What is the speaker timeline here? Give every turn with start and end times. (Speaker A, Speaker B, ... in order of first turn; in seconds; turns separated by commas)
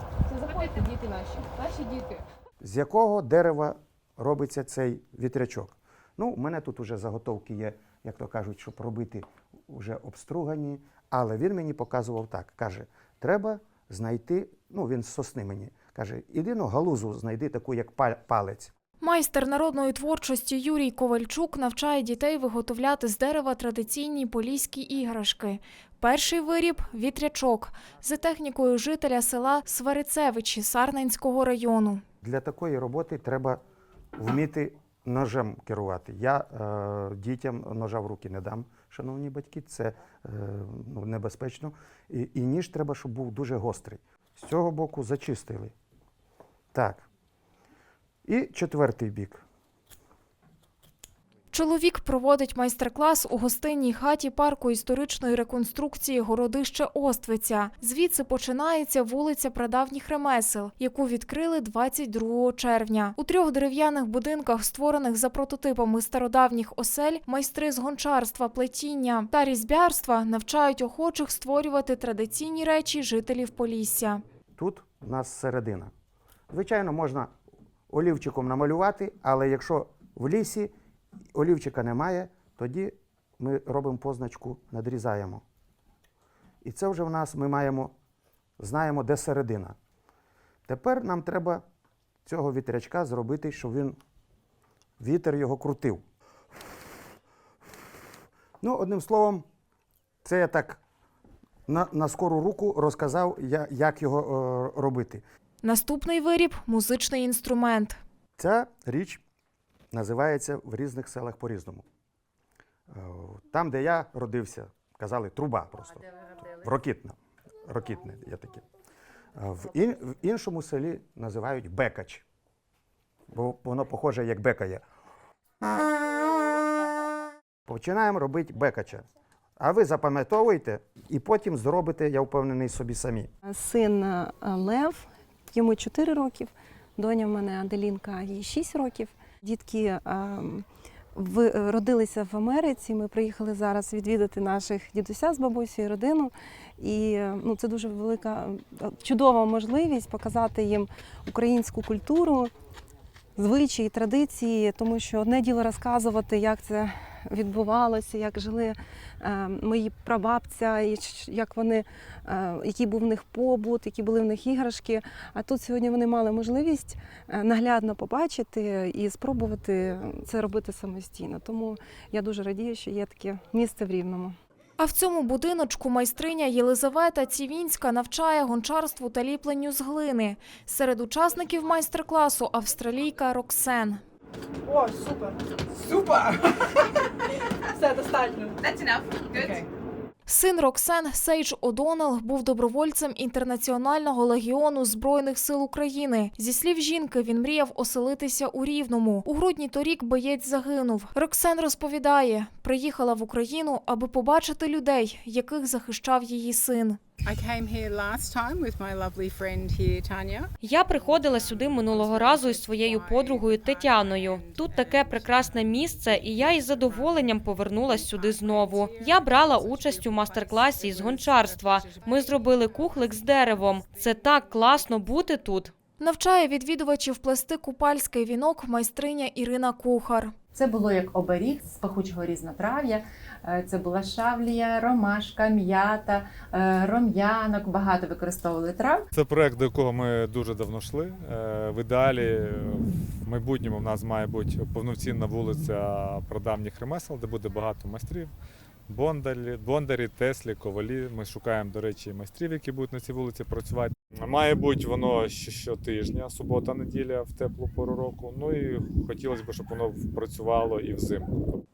Speaker A: 0.3-2.2, Speaker B: 2.6-18.7, Speaker C: 19.0-32.0, Speaker B: 32.2-33.6, Speaker B: 34.2-45.7, Speaker B: 46.7-47.0, Speaker B: 48.2-49.4, Speaker C: 51.5-74.2, Speaker B: 74.5-75.9, Speaker B: 76.5-77.3, Speaker B: 77.9-80.7, Speaker B: 81.3-85.4, Speaker B: 86.6-87.9, Speaker B: 88.6-89.8, Speaker B: 90.7-91.6, Speaker B: 92.2-94.0, Speaker B: 95.0-96.0, Speaker B: 98.6-99.4, Speaker B: 100.2-100.8, Speaker B: 101.7-105.2, Speaker C: 105.6-108.0, Speaker B: 108.4-109.2, Speaker B: 109.9-111.8, Speaker B: 112.9-118.6, Speaker B: 119.3-122.2, Speaker B: 123.3-124.8, Speaker B: 127.7-129.0, Speaker B: 129.6-133.3, Speaker D: 133.4-152.5, Speaker D: 153.4-174.3, Speaker C: 174.8-184.0, Speaker C: 190.2-207.0, Speaker E: 207.3-210.4, Speaker F: 210.6-225.7, Speaker E: 211.4-215.2, Speaker E: 216.3-217.1, Speaker E: 218.0-222.7, Speaker C: 226.0-230.3, Speaker G: 230.5-239.0, Speaker H: 239.1-248.3, Speaker H: 248.9-261.6